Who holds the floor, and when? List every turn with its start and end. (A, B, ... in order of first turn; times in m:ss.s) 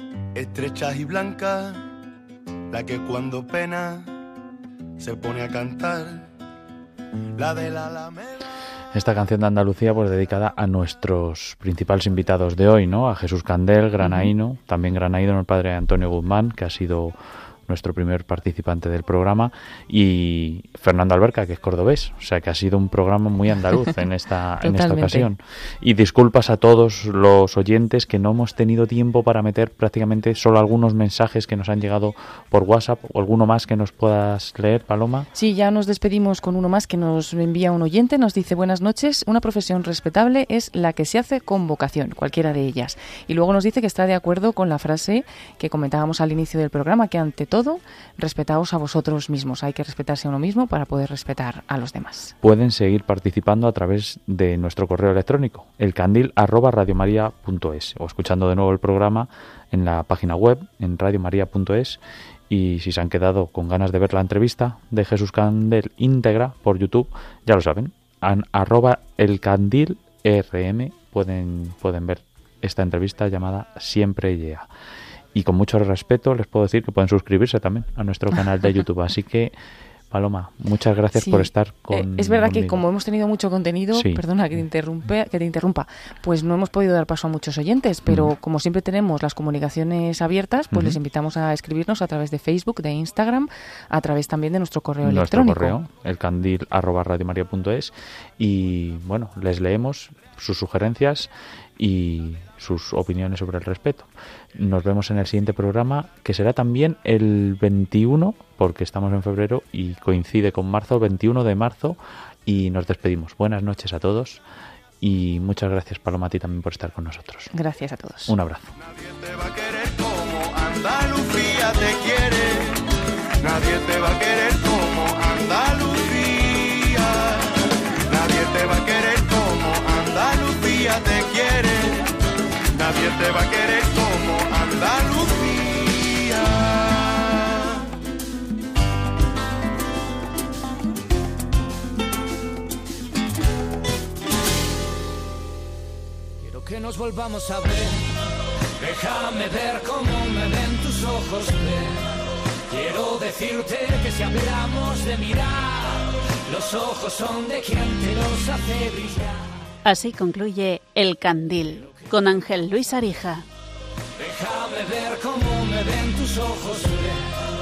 0:00.3-0:01.9 A
0:02.7-0:04.2 A
0:05.0-0:06.3 A
0:07.4-0:08.4 A
0:08.9-0:17.2 B
0:14.0-0:14.3 C
0:17.7-0:35.3 B
0:24.6-0:25.3 C
0:35.3-0:52.4 C
0:52.4-1:14.7 B
1:15.3-1:19.5 B
1:20.1-1:22.8 B
1:21.1-1:35.8 C
1:23.9-1:24.2 B
1:28.1-1:28.3 B
1:30.7-1:31.0 B
1:35.0-1:54.4 B
1:55.0-1:57.5 B
1:57.5-1:58.4 C
1:58.3-1:58.7 B
1:58.8-2:02.8 A
2:03.4-2:07.5 A
2:08.1-2:12.0 A
2:12.7-2:17.7 A
2:26.4-2:28.1 D
2:28.8-2:32.2 D
2:32.7-2:39.5 D
2:39.8-2:43.4 E
2:44.2-2:47.3 D